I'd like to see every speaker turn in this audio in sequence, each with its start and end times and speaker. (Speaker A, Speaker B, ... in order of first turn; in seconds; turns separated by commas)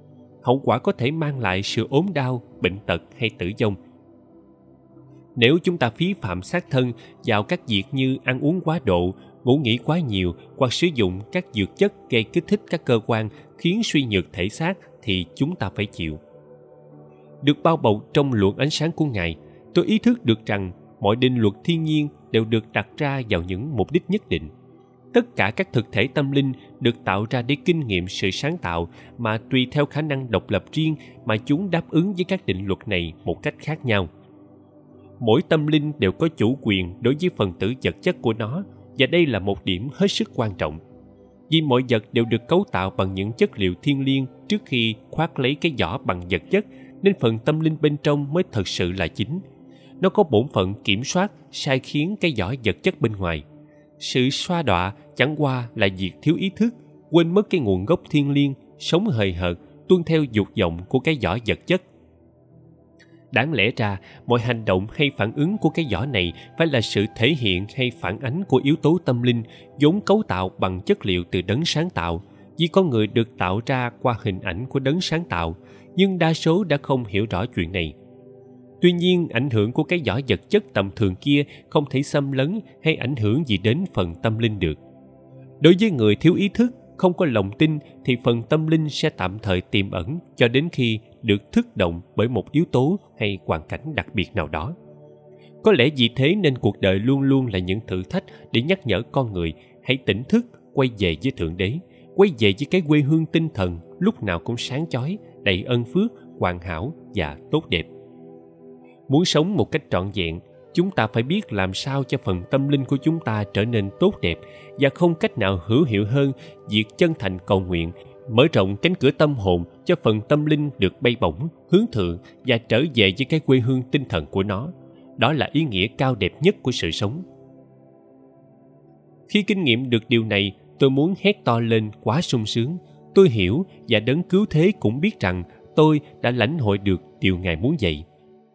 Speaker A: 0.4-3.8, Speaker A: 5.4-16.2, Speaker A: 17.4-24.5, Speaker A: 25.1-34.1, Speaker A: 35.2-40.8, Speaker A: 41.5-49.4, Speaker A: 50.0-53.4, Speaker A: 54.0-61.8, Speaker A: 63.3-78.0, Speaker A: 78.8-84.8, Speaker A: 85.6-94.8, Speaker A: 95.6-107.9, Speaker A: 109.1-127.2, Speaker A: 129.3-138.0